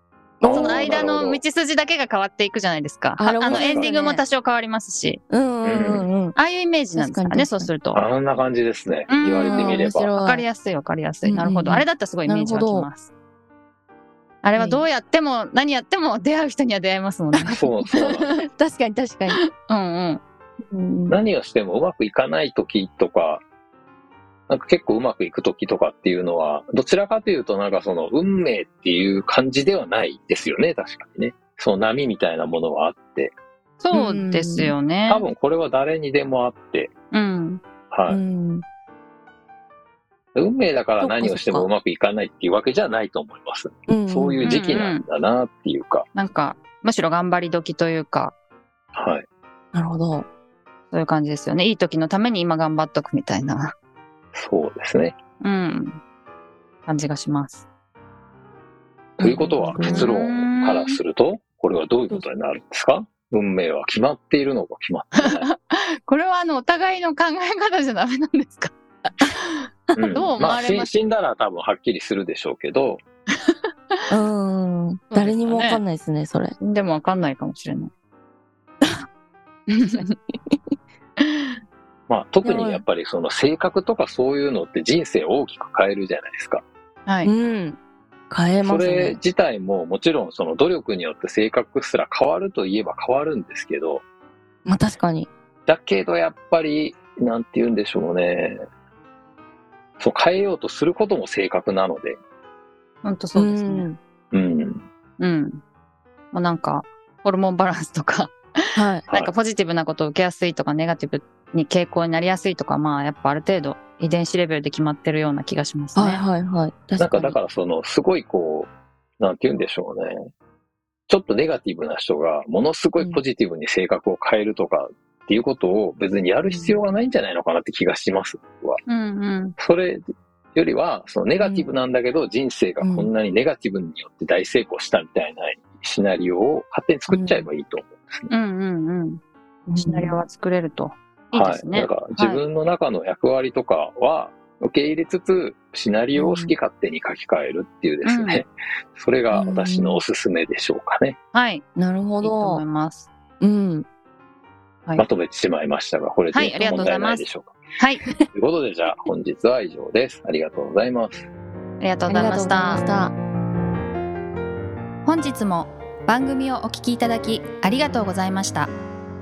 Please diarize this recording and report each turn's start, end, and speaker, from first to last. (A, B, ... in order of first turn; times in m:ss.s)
0:00.4-0:01.0 A
0:00.4-0:01.4 B
0:00.4-0:05.2 C
0:03.2-0:04.2 A
0:03.4-0:03.9 B
0:05.3-0:06.4 A
0:05.6-0:06.1 B
0:06.4-0:08.0 C
0:07.0-0:07.7 A
0:07.9-0:10.1 B
0:09.1-0:13.1 C
0:09.4-0:10.4 A
0:11.2-0:12.9 A
0:14.4-0:18.0 C
0:14.6-0:14.8 A
0:17.5-0:18.4 B
0:18.0-0:19.4 A
0:19.6-0:20.2 C
0:20.7-0:21.2 A
0:21.1-0:23.4 B
0:24.5-0:33.3 B
0:33.8-0:35.2 C
0:33.9-0:34.7 A
0:35.1-0:36.9 B
0:37.1-0:37.6 C
0:37.9-0:38.2 B
0:38.1-0:38.6 A
0:40.4-0:46.1 B
0:41.0-0:41.7 A
0:43.9-0:44.6 A
0:44.4-0:45.0 C
0:46.2-0:48.4 C
0:48.9-0:49.2 B
0:49.7-0:50.3 A
0:50.9-0:53.7 C
0:54.4-0:55.2 B
0:55.4-0:56.0 C
0:56.9-0:57.7 C
0:59.2-1:00.1 A
0:59.2-1:05.5 B
0:59.8-1:01.0 C
1:05.2-1:10.9 C
1:10.0-1:13.0 B
1:14.1-1:16.6 A
1:15.1-1:15.8 C
1:16.6-1:17.9 C
1:19.7-1:20.1 C
1:21.2-1:21.5 C
1:22.1-1:26.6 B
1:22.4-1:22.8 A
1:27.1-1:27.3 C
1:27.2-1:27.8 A
1:28.3-1:29.2 A
1:28.6-1:34.0 B
1:34.7-1:35.3 A
1:35.7-1:38.6 B
1:40.0-1:42.2 B
1:43.0-1:43.9 C
1:43.4-1:44.0 A
1:44.3-1:44.8 B
1:45.2-1:45.6 C
1:46.3-1:48.4 C
1:48.8-1:49.0 A
1:49.1-1:56.2 C
1:49.1-1:49.3 B
1:56.0-1:57.4 A
1:57.0-2:00.3 B
2:01.1-2:08.8 B
2:06.4-2:06.8 A
2:08.9-2:09.6 C
2:09.6-2:10.0 B
2:10.6-2:18.3 B
2:11.4-2:11.7 A
2:12.8-2:13.1 A
2:17.1-2:17.5 A
2:18.3-2:19.2 C
2:19.7-2:20.2 A
2:19.8-2:22.4 C
2:21.3-2:31.2 B
2:26.1-2:26.5 A
2:28.0-2:28.4 C
2:29.3-2:30.0 A
2:31.3-2:31.6 C
2:31.8-2:32.6 A
2:32.2-2:33.1 C
2:33.4-2:33.9 A
2:35.0-2:37.6 B
2:36.3-2:37.2 C
2:37.8-2:38.1 C
2:38.3-2:41.3 B
2:41.8-2:42.8 C
2:42.1-2:43.2 A
2:45.0-2:48.7 C